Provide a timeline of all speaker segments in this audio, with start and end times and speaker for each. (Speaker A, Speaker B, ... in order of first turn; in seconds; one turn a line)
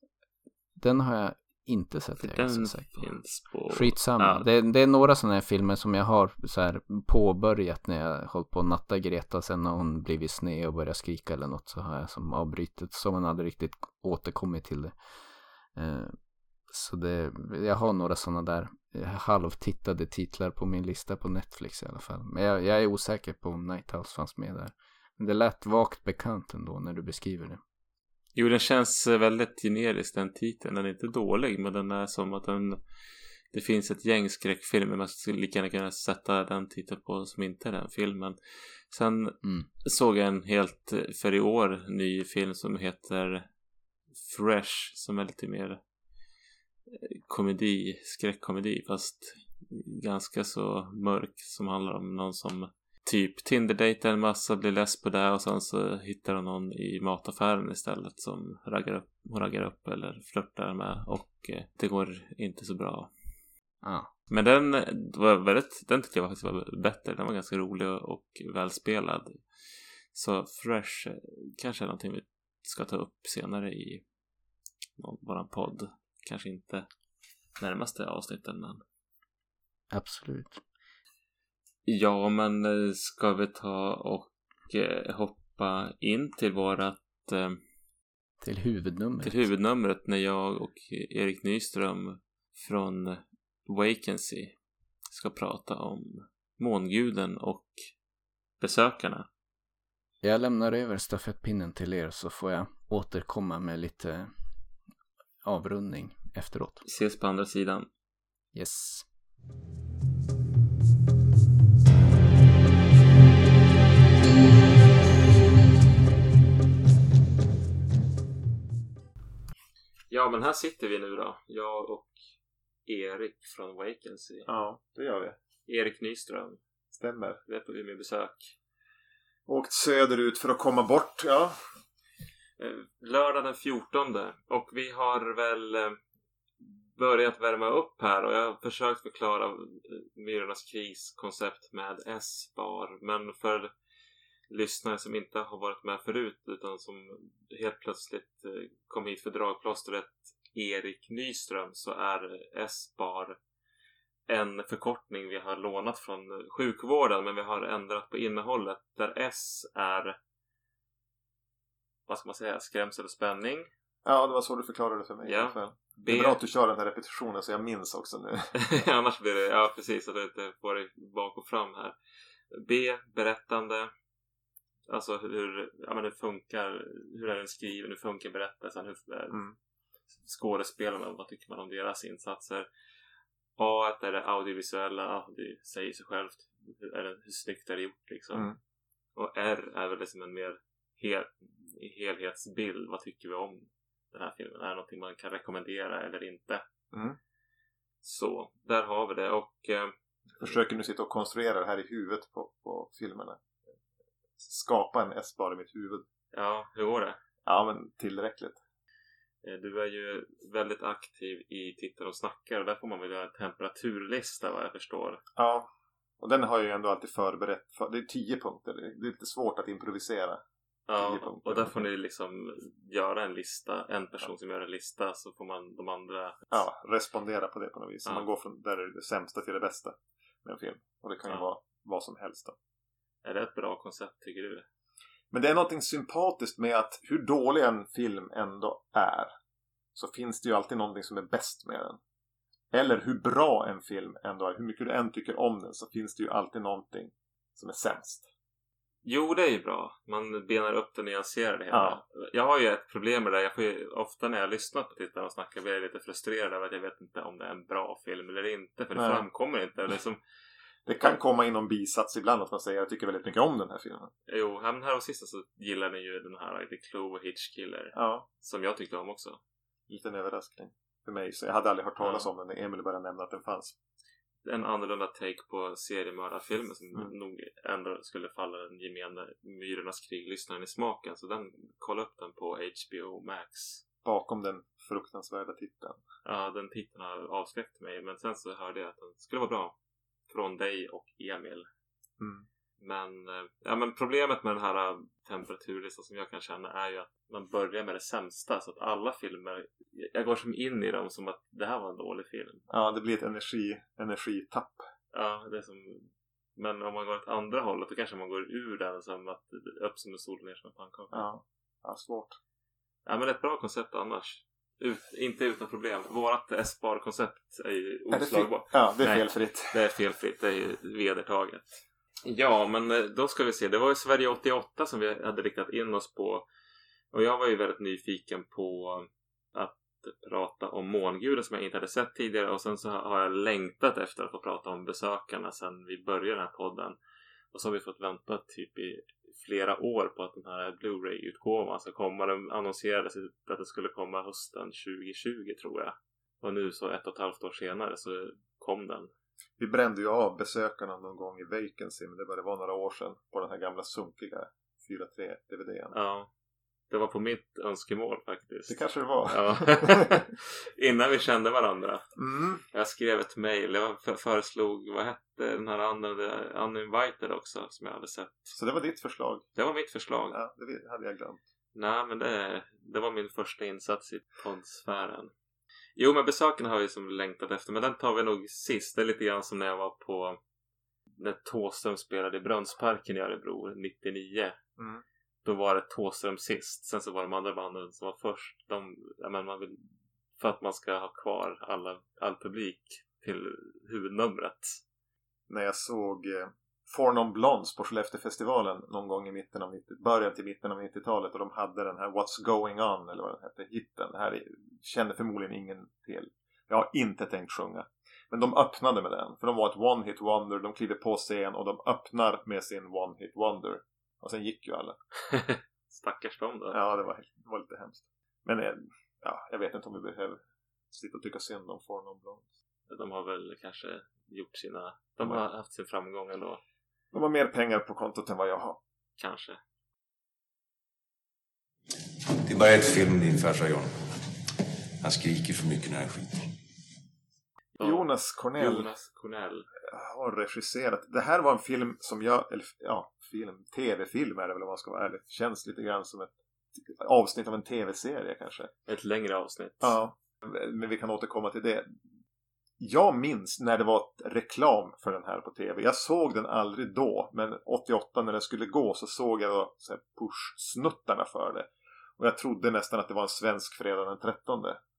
Speaker A: 0.8-3.1
Speaker B: 2.2-4.5
Speaker A: 3.7-15.0
Speaker A: 15.8-16.2
Speaker A: 16.7-27.6
Speaker B: 28.4-32.8
Speaker B: 33.5-43.5
Speaker A: 39.4-39.7
Speaker B: 44.2-45.8
Speaker B: 46.9-63.1
Speaker A: 63.8-64.1
Speaker B: 64.3-74.0
Speaker B: 75.0-76.9
Speaker B: 77.6-78.8
Speaker A: 79.9-80.6
Speaker B: 81.9-87.6
Speaker A: 88.4-89.5
Speaker B: 89.2-94.6
Speaker B: 95.1-97.8
Speaker B: 98.6-99.3
Speaker A: 100.2-104.3
Speaker A: 105.4-106.8
Speaker B: 106.8-107.9
Speaker A: 108.5-109.0
Speaker B: 120.1-122.1
Speaker B: 122.9-124.5
Speaker C: 124.5-125.4
Speaker B: 125.7-126.6
Speaker C: 126.9-127.4
Speaker B: 127.5-128.5
Speaker C: 129.5-131.6
Speaker B: 132.6-136.0
Speaker B: 136.6-143.7
Speaker B: 144.5-153.4
Speaker B: 154.3-160.2
Speaker B: 162.1-163.7
Speaker C: 164.0-168.5
Speaker B: 165.2-166.4
Speaker B: 168.6-172.0
Speaker B: 172.5-173.9
Speaker B: 174.9-179.4
Speaker B: 180.2-182.7
Speaker B: 183.6-188.5
Speaker B: 189.2-196.6
Speaker C: 196.9-197.2
Speaker B: 198.0-199.9
Speaker C: 200.4-203.4
Speaker C: 204.4-206.1
Speaker B: 206.3-207.2
Speaker C: 207.4-208.6
Speaker B: 209.4-215.2
Speaker C: 215.4-215.7
Speaker C: 216.2-220.4
Speaker B: 220.9-226.6
Speaker C: 220.9-221.9
Speaker C: 226.5-232.6
Speaker B: 233.2-234.7
Speaker C: 235.3-239.3
Speaker C: 239.9-242.0
Speaker C: 242.7-248.3
Speaker B: 249.0-260.2
Speaker C: 251.7-252.0
Speaker C: 258.9-259.2
Speaker C: 260.9-264.1
Speaker B: 264.3-269.4
Speaker C: 267.9-268.3
Speaker C: 269.9-273.8
Speaker B: 272.0-272.3
Speaker B: 274.4-283.9
Speaker C: 284.0-286.0
Speaker B: 286.2-289.7
Speaker B: 290.3-291.7
Speaker C: 292.2-292.4
Speaker B: 292.8-302.6
Speaker C: 302.7-304.8
Speaker B: 305.1-311.2
Speaker C: 311.1-312.4
Speaker B: 313.1-326.4
Speaker C: 318.1-319.7
Speaker B: 327.1-337.0
Speaker B: 337.5-349.1
Speaker C: 349.6-355.9
Speaker B: 355.9-356.3
Speaker B: 356.9-358.8
Speaker C: 358.7-360.2
Speaker B: 359.3-362.1
Speaker C: 362.2-362.6
Speaker B: 362.7-368.6
Speaker C: 368.5-369.4
Speaker B: 369.6-370.4
Speaker C: 370.3-371.4
Speaker B: 371.7-375.3
Speaker B: 375.9-380.4
Speaker B: 381.2-384.6
Speaker C: 384.8-385.0
Speaker B: 385.4-389.9
Speaker B: 390.4-394.8
Speaker C: 395.5-415.0
Speaker B: 415.3-416.8
Speaker C: 416.7-420.4
Speaker C: 420.9-422.5
Speaker B: 422.9-426.6
Speaker C: 427.1-428.8
Speaker B: 429.2-429.6
Speaker D: 432.3-434.2
Speaker D: 435.0-436.5
Speaker B: 437.8-439.7
Speaker C: 437.8-438.9
Speaker C: 439.9-448.7
Speaker B: 448.9-450.0
Speaker C: 449.8-451.9
Speaker C: 452.8-464.8